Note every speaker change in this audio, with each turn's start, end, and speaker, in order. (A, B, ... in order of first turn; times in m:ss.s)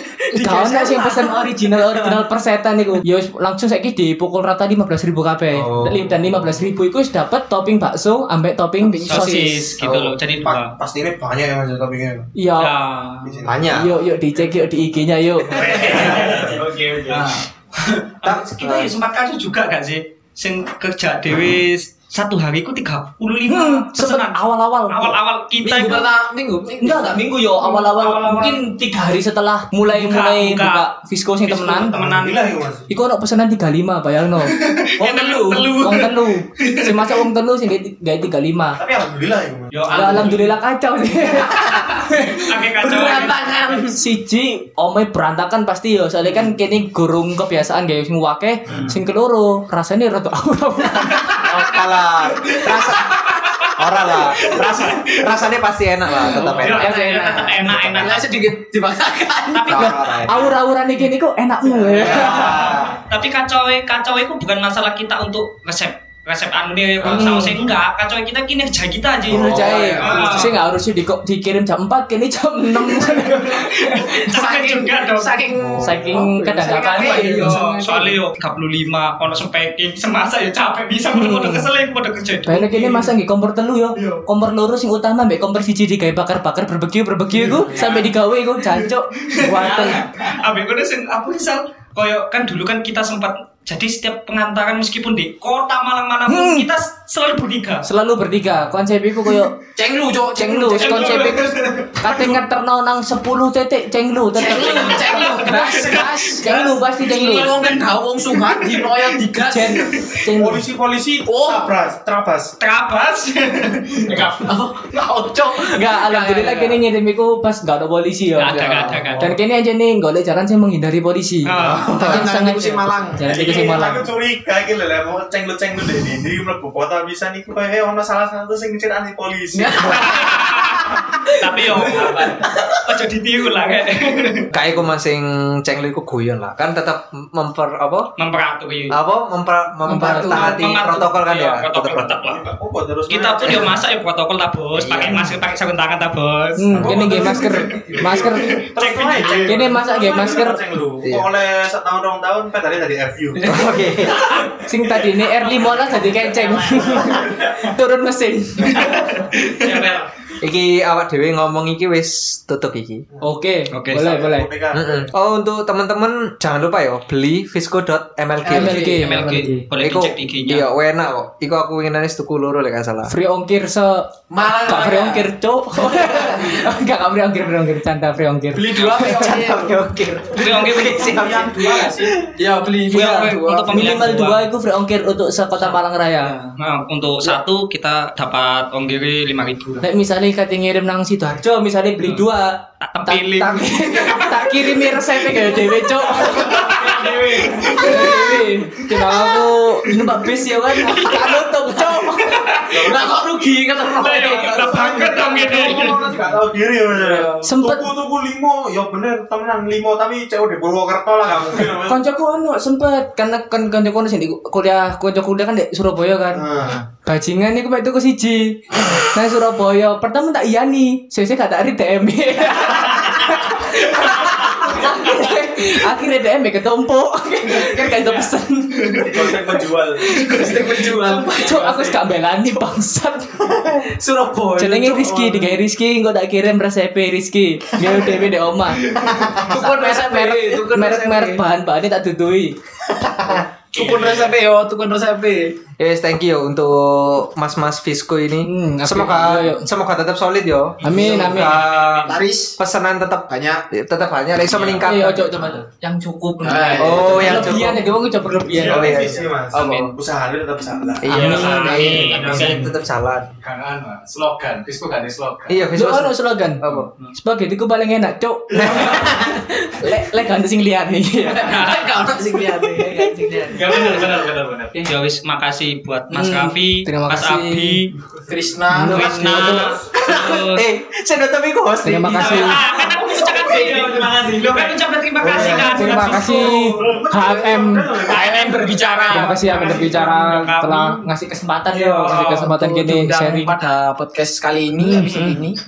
0:00.2-0:02.2 A
0:00.3-0:09.8 B
0:05.5-0:06.1 C
0:08.8-0:09.6 A
0:09.1-0:10.7 D
0:09.8-0:10.2 C
0:10.4-0:12.3 E
0:12.4-0:12.7 B
0:12.6-0:13.4 D
0:13.2-0:13.9 E
0:13.4-0:13.9 C
0:13.7-0:16.0 B
0:15.5-0:17.3 E
0:15.6-0:16.6 D
0:17.1-0:17.4 A
0:18.2-0:26.1 D
0:18.2-0:19.0 C
0:23.5-0:25.2 B
0:25.6-0:27.3 A
0:26.8-0:32.0 B
0:27.6-0:28.6 D
0:29.9-0:30.9 D
0:31.5-0:32.5 D
0:31.9-0:32.9 E
0:32.9-0:38.8 B
0:34.5-0:37.0 D
0:35.0-0:35.7 A
0:38.8-0:40.2 E
0:39.7-0:40.6 D
0:39.9-0:51.4 B
0:41.3-0:42.2 A
0:42.2-0:43.4 D
0:42.8-0:44.0 A
0:48.7-0:48.9 E
0:51.4-0:53.2 C
0:53.4-0:53.8 D
0:53.8-0:56.8 C
0:54.4-0:55.1 D
0:56.1-0:56.8 A
0:56.3-0:58.3 D
0:56.4-0:57.9 B
0:57.9-1:00.2 A
0:59.5-1:00.5 D
0:59.7-1:00.5 C
0:59.8-1:02.7 B
1:01.8-1:02.8 A
1:02.0-1:10.5 D
1:02.1-1:02.7 C
1:07.1-1:07.6 B
1:09.3-1:10.6 A
1:09.3-1:13.8 B
1:13.4-1:15.4 D
1:13.9-1:18.2 A
1:15.6-1:16.2 E
1:15.8-1:17.6 B
1:17.0-1:23.1 D
1:21.1-1:21.7 B
1:22.5-1:30.1 B
1:27.5-1:27.8 C
1:27.8-1:28.0 D
1:28.8-1:37.9 D
1:36.3-1:36.7 B
1:37.8-1:39.6 B
1:39.8-1:42.4 A
1:40.2-1:47.6 B
1:40.8-1:41.9 D
1:44.4-1:50.1 A
1:44.4-1:46.2 D
1:47.1-1:49.2 D
1:49.3-1:50.6 B
1:50.3-1:52.5 E
1:51.3-1:51.7 A
1:52.6-1:54.3 D
1:54.1-1:56.8 A
1:55.6-1:58.6 B
1:58.4-1:59.4 D
1:58.5-1:59.1 A
1:59.1-2:04.1 B
2:01.4-2:01.9 D
2:01.5-2:03.9 A
2:01.7-2:02.2 C
2:03.2-2:10.1 E
2:09.5-2:12.9 A
2:09.8-2:14.5 D
2:13.6-2:14.0 A
2:14.5-2:18.1 C
2:18.2-2:19.0 D
2:18.9-2:22.2 C
2:19.9-2:20.5 B
2:19.9-2:20.6 A
2:20.2-2:22.4 D
2:22.1-2:23.8 E
2:23.1-2:29.6 D
2:23.4-2:23.7 C
2:24.8-2:25.3 C
2:26.6-2:28.6 B
2:26.8-2:33.6 E
2:27.1-2:28.2 A
2:29.4-2:30.6 B
2:31.0-2:31.3 C
2:33.4-2:34.3 C
2:34.6-2:39.1 B
2:36.1-2:37.1 D
2:38.8-2:40.1 D
2:40.4-2:43.0 C
2:43.2-2:44.5 B
2:43.7-2:44.1 D
2:43.9-2:45.1 E
2:44.7-2:48.9 C
2:48.4-2:49.1 A
2:48.5-2:49.7 B
2:49.0-2:50.7 D
2:49.8-2:53.1 C
2:53.1-2:59.2 B
2:54.3-2:55.3 A
2:55.9-2:56.7 A
2:58.5-3:04.1 A
2:59.0-3:02.0 C
3:00.3-3:01.2 D
3:00.8-3:02.1 E
3:02.9-3:04.4 D
3:03.7-3:06.3 B
3:06.2-3:06.6 A
3:06.6-3:09.9 D
3:09.8-3:22.6 B
3:12.8-3:18.4 D
3:16.2-3:17.5 A
3:18.9-3:19.3 D
3:20.8-3:21.5 D
3:21.9-3:25.8 A
3:22.2-3:23.0 D
3:22.7-3:23.2 E
3:23.9-3:26.1 D
3:24.4-3:32.0 E
3:26.9-3:27.4 A
3:27.4-3:27.9 B
3:31.9-3:36.4 B
3:36.3-3:36.9 E
3:37.0-3:49.1 B
3:49.0-3:50.5 E
3:50.1-3:53.7 B
3:50.1-3:52.0 A
3:53.6-3:55.6 A
3:54.6-4:02.6 B
3:59.3-4:01.4 A
4:03.2-4:05.6 A
4:03.8-4:04.1 D
4:03.8-4:04.3 F
4:05.8-4:15.6 C
4:08.4-4:09.7 B
4:10.8-4:11.6 B
4:10.9-4:11.5 A
4:11.4-4:12.2 D
4:12.1-4:12.6 A
4:13.3-4:13.6 A
4:14.5-4:14.9 F
4:14.8-4:18.9 B
4:16.4-4:17.6 A
4:16.8-4:17.9 C
4:18.5-4:19.2 F
4:18.6-4:21.4 E
4:18.6-4:19.9 C
4:19.5-4:19.9 D
4:21.0-4:23.3 C
4:21.1-4:21.8 B
4:21.1-4:22.6 D
4:21.3-4:22.8 F
4:23.4-4:25.6 F
4:25.5-4:26.9 C
4:25.8-4:26.6 B
4:26.7-4:27.1 F
4:27.2-4:31.8 B
4:28.5-4:29.0 C
4:31.2-4:34.1 A
4:31.4-4:31.8 D
4:33.0-4:33.4 B
4:33.5-4:34.9 F
4:34.8-4:37.9 D
4:36.1-4:37.8 B
4:38.3-4:39.8 A
4:38.7-4:39.7 B
4:38.8-4:40.6 D
4:39.1-4:40.3 E
4:40.0-4:42.6 C
4:41.8-4:42.6 B
4:42.2-4:46.7 D
4:42.3-4:44.2 A
4:43.1-4:44.8 F
4:45.2-4:48.8 E
4:45.4-4:48.0 B
4:48.0-4:49.8 A
4:48.1-4:51.0 D
4:49.1-4:53.5 B
4:49.4-4:50.0 E
4:51.7-4:55.6 A
4:54.8-4:55.4 B